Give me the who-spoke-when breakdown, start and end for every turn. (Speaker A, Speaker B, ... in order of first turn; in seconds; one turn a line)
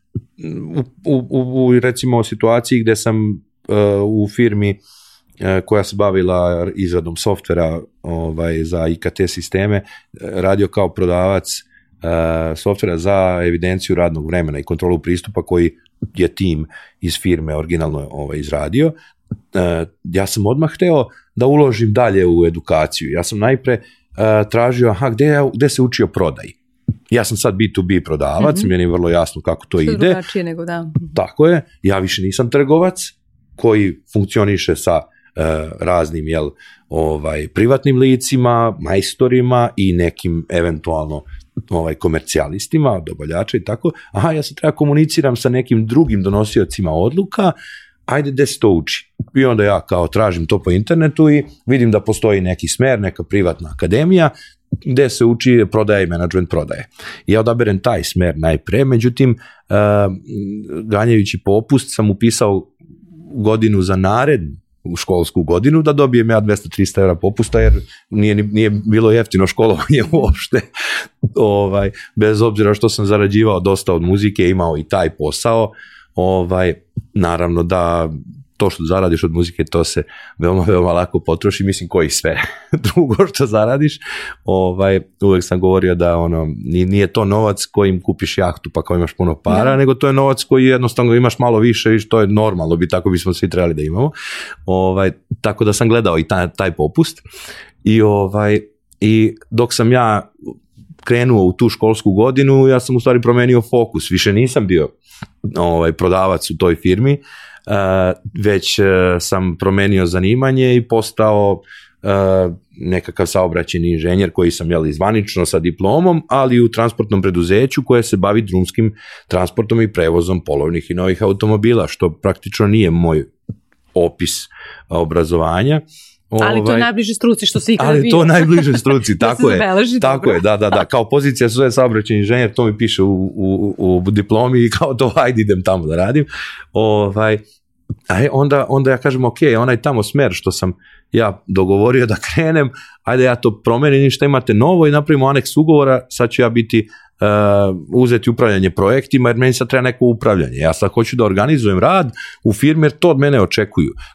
Speaker A: 0.4-4.8
Speaker A: 5.4-18.9
Speaker A: 19.5-26.6
Speaker A: 27.1-30.2
Speaker B: 28.4-28.7
Speaker B: 29.8-31.1
Speaker A: 31.1-47.5
Speaker A: 48.1-54.3
Speaker A: 54.8-62.7
Speaker A: 63.3-70.7
Speaker A: 71.3-94.1
Speaker B: 89.5-89.7
Speaker A: 94.7-97.2
Speaker A: 97.8-100.3
Speaker A: 101.0-104.9
Speaker A: 105.5-123.3
Speaker A: 123.9-126.9
Speaker B: 126.4-130.4
Speaker A: 127.8-137.4
Speaker A: 138.1-153.9